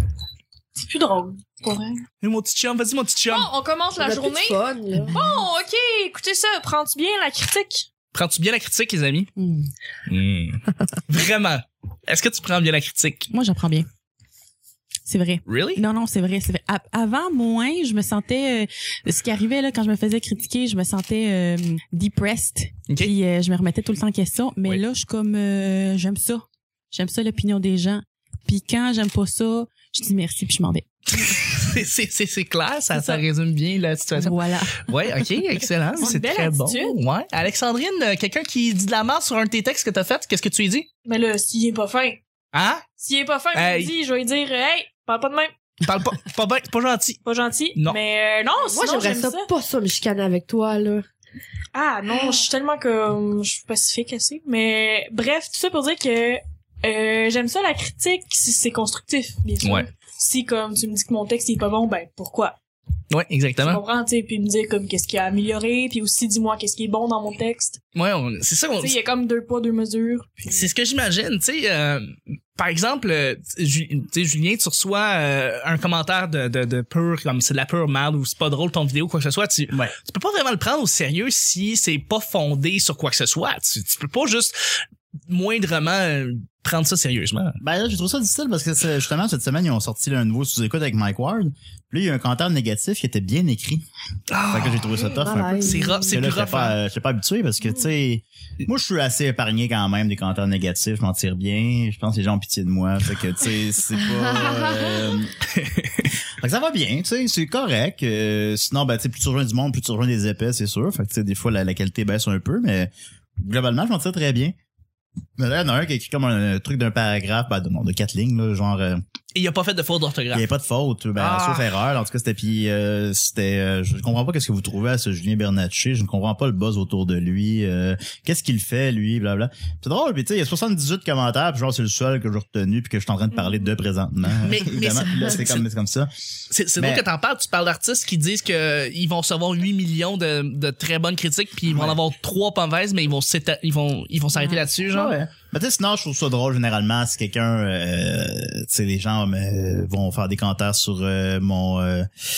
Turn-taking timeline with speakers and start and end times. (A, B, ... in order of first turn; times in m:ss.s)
0:00.8-0:02.0 A
0:02.2-0:03.5 B
0:03.3-0:07.9 A
0:04.0-0:05.2 C
0:08.1-0:09.3 B
0:09.4-0:09.7 D
0:10.1-0:13.3 B
0:13.3-0:13.9 D
0:15.0-0:31.6 D
0:15.4-0:15.8 B
0:22.9-0:23.1 B
0:31.1-0:40.9 B
0:32.9-0:33.2 D
0:34.1-0:35.2 D
0:36.0-0:37.0 A
0:41.0-0:42.2 A
0:42.5-0:42.8 B
0:43.0-0:45.5 A
0:43.5-0:43.9 B
0:45.8-0:47.2 B
0:47.2-0:49.5 A
0:48.7-0:51.0 C
0:51.7-1:02.6 A
0:59.6-0:59.9 B
1:03.1-1:03.8 B
1:03.6-1:07.8 A
1:07.9-1:09.0 B
1:08.8-1:10.4 A
1:10.4-1:24.5 B
1:25.3-1:27.6 B
1:27.6-1:33.8 E
1:34.3-1:36.8 B
1:34.5-1:45.3 E
1:35.2-1:36.2 C
1:44.0-1:45.1 C
1:45.5-1:46.1 B
1:46.4-1:54.5 E
1:55.4-1:59.0 E
1:59.3-2:00.4 B
2:00.3-2:16.1 E
2:01.2-2:01.7 B
2:14.4-2:15.6 B
2:14.8-2:15.3 C
2:16.5-2:25.1 B
2:16.8-2:17.0 E
2:21.7-2:22.0 E
2:24.9-2:32.1 E